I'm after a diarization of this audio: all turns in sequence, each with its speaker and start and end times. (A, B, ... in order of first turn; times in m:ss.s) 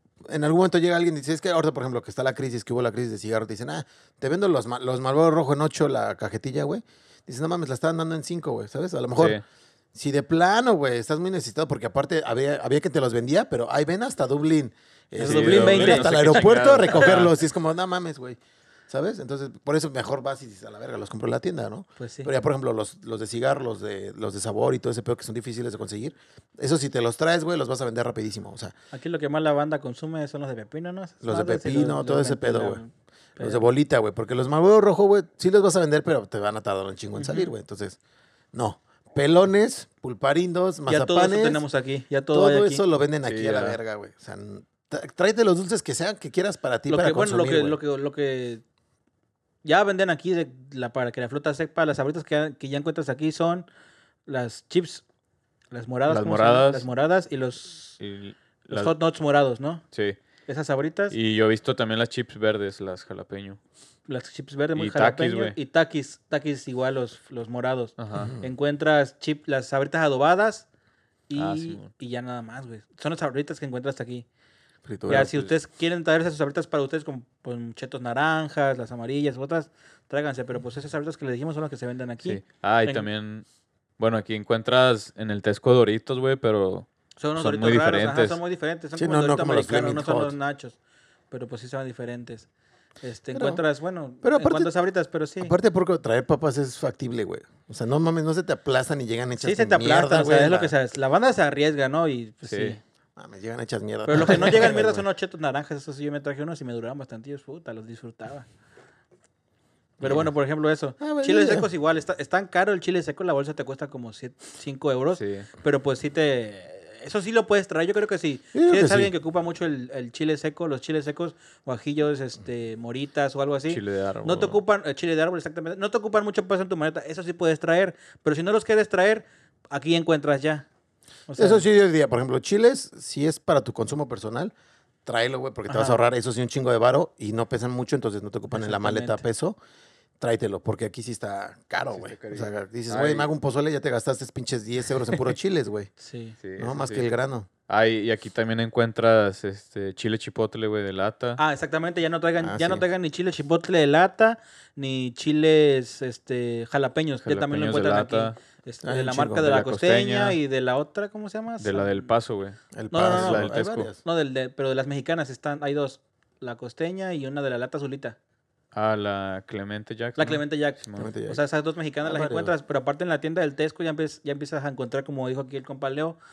0:00.2-0:09.4 A
0:09.2-0:09.4 B
0:09.9-0:18.4 A
0:15.2-0:17.1 C
0:15.2-0:17.3 B
0:18.9-0:28.7 A
0:22.0-0:22.3 C
0:28.9-0:33.6 C
0:31.2-0:32.8 A
0:33.4-0:38.0 A
0:37.2-0:37.5 C
0:38.5-0:41.6 A
0:40.9-0:42.8 C
0:42.3-0:47.8 A
0:43.2-0:43.8 B
0:46.9-0:48.6 C
0:49.6-0:53.6 C
0:54.3-0:55.0 C
0:55.7-0:58.0 C
0:56.1-0:56.9 B
0:58.0-0:58.9 B
0:58.6-0:59.8 C
0:59.9-1:00.2 B
1:00.5-1:01.2 C
1:01.1-1:03.6 B
1:04.1-1:10.7 C
1:04.8-1:05.6 B
1:08.0-1:08.3 B
1:08.1-1:08.5 A
1:11.3-1:14.2 C
1:11.3-1:11.9 B
1:14.8-1:15.5 A
1:15.1-1:23.1 C
1:22.2-1:23.4 B
1:24.0-1:28.4 B
1:27.2-1:30.8 C
1:29.0-1:30.4 A
1:31.3-1:32.5 C
1:33.0-1:35.5 C
1:33.3-1:33.6 A
1:34.2-1:34.7 A
1:35.4-1:40.7 A
1:39.4-1:42.8 C
1:42.4-1:42.8 B
1:43.2-1:45.0 A
1:44.0-1:48.4 C
1:50.0-2:10.6 C
1:51.0-1:51.7 A
1:55.1-1:55.5 B
1:58.5-1:59.1 A
2:03.7-2:04.6 B
2:11.3-2:11.6 C
2:11.4-2:14.5 A
2:15.0-2:19.6 A
2:15.7-2:16.0 C
2:18.5-2:19.2 C
2:20.2-2:25.9 A
2:21.9-2:23.3 B
2:26.0-2:26.4 C
2:26.4-2:27.1 B
2:26.6-2:27.5 A
2:27.7-2:31.4 B
2:31.4-2:42.1 C
2:32.4-2:32.8 A
2:37.2-2:38.4 B
2:38.8-2:39.5 A
2:39.4-2:40.4 B
2:41.6-2:43.9 B
2:42.7-2:44.0 A
2:42.9-2:48.2 C
2:48.7-2:51.1 B
2:50.2-2:56.2 C
2:51.0-2:51.4 A
2:52.0-2:52.5 A